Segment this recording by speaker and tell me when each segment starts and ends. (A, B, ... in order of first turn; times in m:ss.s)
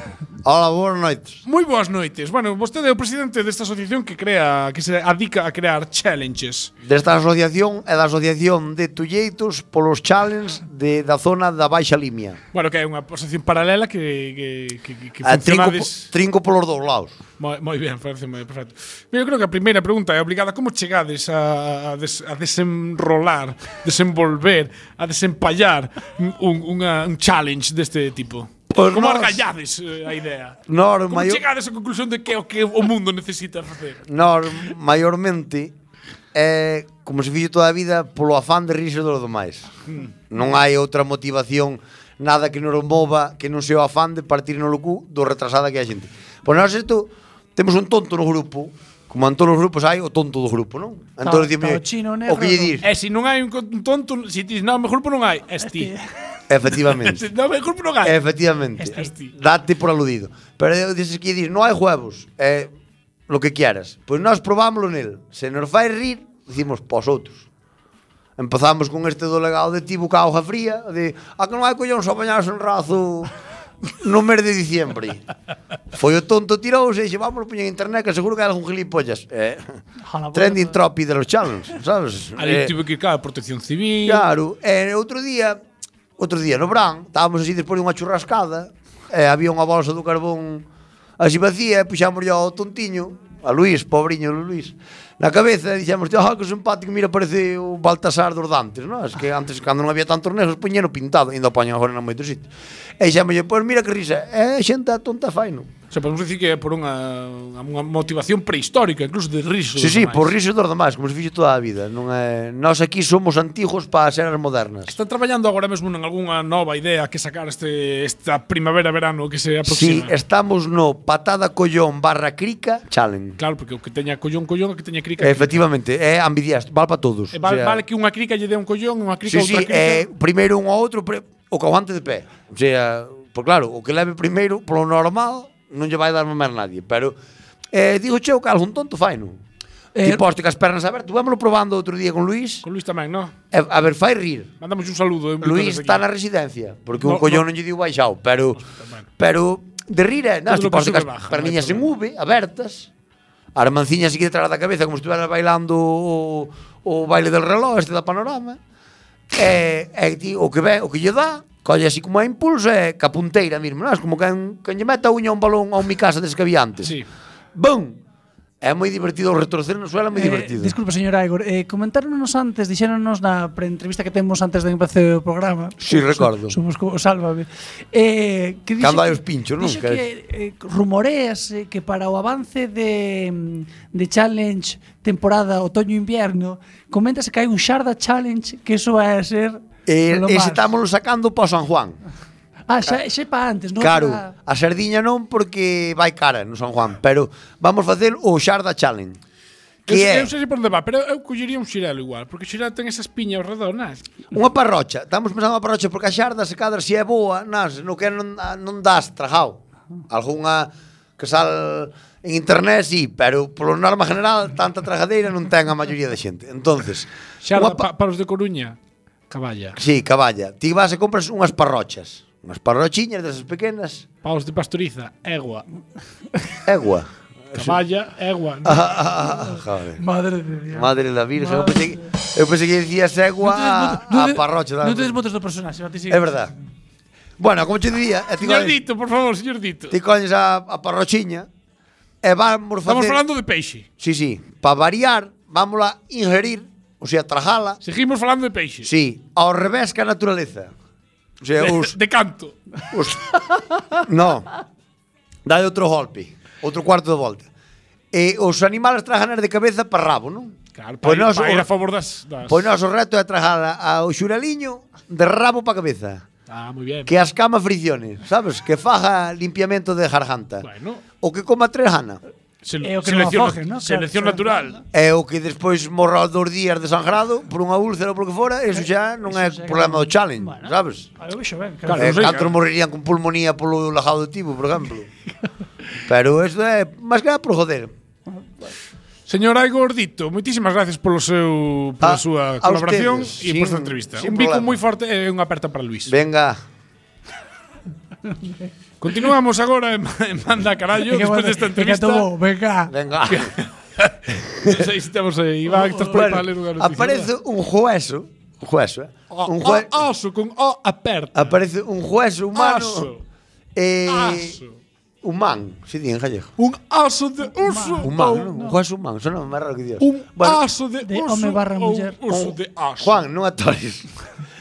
0:00.4-0:01.4 A
0:01.4-0:06.7 B
0:06.8-0:12.4 A
0:12.5-0:16.1 B
0:15.2-0:17.2 A
0:17.4-0:34.0 B
0:28.7-0:29.4 A
0:30.7-0:31.4 A
0:34.1-0:35.7 A
0:36.3-0:39.7 A
0:40.3-0:52.8 A
0:51.2-0:52.8 C
0:52.8-0:55.9 B
0:55.6-0:56.0 C
0:56.5-0:57.3 A
0:56.9-0:58.2 B
0:58.0-1:02.7 A
0:58.8-0:59.1 C
0:58.9-0:59.3 B
1:03.3-1:07.4 A
1:08.4-1:13.3 A
1:14.0-1:15.2 A
1:15.9-1:19.8 A
1:20.0-1:20.8 C
1:20.3-1:22.7 A
1:22.4-1:24.2 B
1:24.0-1:25.6 A
1:26.2-1:30.6 A
1:31.2-1:45.7 A
1:45.9-1:50.3 B
1:49.8-1:54.9 A
1:54.9-2:00.1 B
1:59.6-2:03.4 A
2:03.4-2:05.6 B
2:05.2-2:07.8 A
2:07.3-2:10.0 B
2:09.3-2:17.2 A
2:17.7-2:19.4 A
2:19.9-2:20.2 C
2:20.0-2:22.6 A
2:22.6-2:23.3 B
2:23.5-2:24.5 A
2:24.6-2:26.0 B
2:25.4-2:28.6 A
2:27.0-2:27.4 B
2:28.6-2:29.1 B
2:29.2-2:32.9 A
2:30.5-2:31.9 B
2:33.5-2:38.6 A
2:39.3-2:47.0 A
2:47.5-2:48.0 A
2:48.6-2:50.8 A
2:50.1-3:10.7 C
2:55.8-2:56.6 A
2:58.8-3:00.0 A
3:09.8-3:12.0 A
3:12.7-3:14.3 C
3:13.8-3:19.2 A
3:19.8-3:24.0 B
3:19.9-3:20.3 A
3:24.3-3:37.8 A
3:37.4-3:38.8 B
3:39.3-3:39.8 B
3:39.8-3:44.0 A
3:44.2-3:45.6 B
3:46.6-3:47.8 A
3:47.5-3:48.9 B
3:48.6-3:50.0 A
3:50.0-3:52.0 C
3:50.7-3:55.2 A
3:53.4-3:56.3 C
3:56.1-3:56.5 A
3:57.4-3:58.8 A
3:58.4-4:00.0 B
3:59.9-4:01.5 A
4:02.2-4:03.2 A
4:02.8-4:03.9 B
4:04.0-4:07.8 A
4:07.8-4:08.9 B
4:08.8-4:10.7 A
4:11.4-4:12.0 A
4:11.6-4:12.6 B
4:12.9-4:13.2 A
4:14.0-4:14.5 A
4:15.4-4:17.5 A
4:18.1-4:21.7 A
4:20.8-4:22.6 B
4:22.5-4:26.2 A
4:26.5-4:27.1 B
4:27.0-4:30.7 A
4:30.6-4:31.0 B
4:31.2-4:32.2 A
4:32.6-4:34.8 B
4:32.8-4:34.7 C
4:34.9-4:41.1 A
4:38.7-4:42.3 C
4:41.9-4:42.5 B
4:42.0-4:45.1 A
4:46.0-4:47.9 A
4:49.3-4:56.1 B
4:52.0-4:54.8 A
4:56.0-4:56.6 A
4:59.0-5:02.3 B
5:01.1-5:02.9 C
5:02.9-5:03.5 A
5:03.3-5:07.3 B
5:04.6-5:04.9 A
5:05.8-5:06.1 C
5:06.1-5:09.9 A
5:09.3-5:11.6 B
5:11.3-5:13.1 A
5:12.5-5:13.2 B
5:13.7-5:14.6 A
5:14.1-5:14.7 B
5:15.2-5:16.5 A
5:16.6-5:18.4 B
5:17.6-5:18.8 C
5:18.0-5:20.6 A
5:20.0-5:23.2 B
5:21.0-5:22.2 C
5:22.3-5:24.1 A